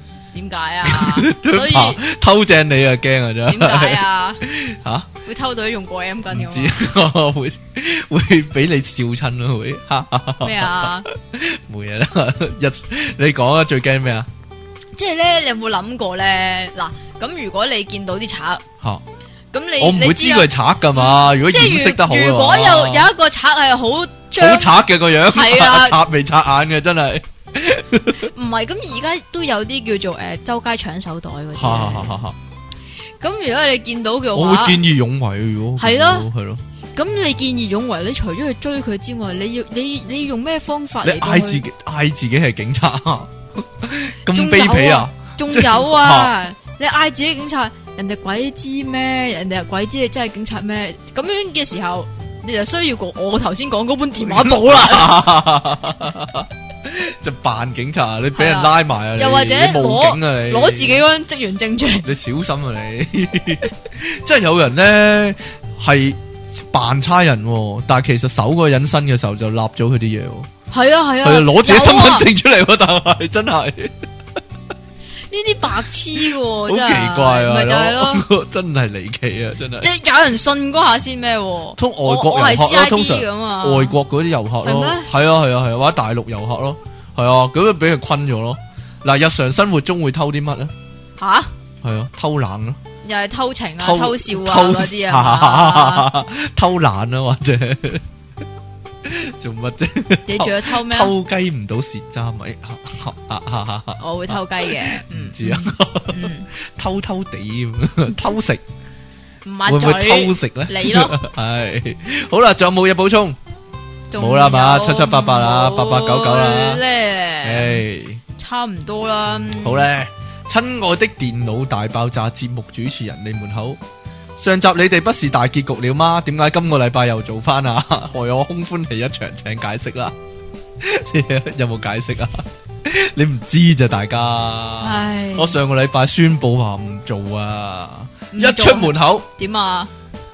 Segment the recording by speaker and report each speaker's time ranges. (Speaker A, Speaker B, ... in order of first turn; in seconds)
Speaker A: 0.3-2.0, 3.5-4.4, 5.2-6.8, 10.4-11.1, 14.9-18.6, 19.5-26.0, 28.2-32.2, 33.2-34.8, 35.8-36.2, 37.0-41.6, 44.3-55.2, 58.3-62.1, 70.7-72.3, 75.3-78.2, 79.8-84.0, 84.6-85.1, 91.2-91.5, 93.0-96.1, 100.3-101.1, 104.0-106.5, 109.4-111.2, 114.1-117.8, 118.3-119.9, 134.8-135.6, 138.3-139.9
Speaker B: 0.8-5.1, 6.3-14.3, 19.8-23.1, 24.4-28.3, 31.5-32.4, 34.3-36.6, 41.0-46.3, 54.2-61.0, 62.0-70.5, 71.2-73.9, 76.7-79.9, 81.8-90.7, 91.8-92.8, 93.8-98.0, 99.0-108.6, 109.7-113.4, 114.2-116.8, 117.4-118.2, 119.6-123.8, 124.4-130.1, 130.8-139.3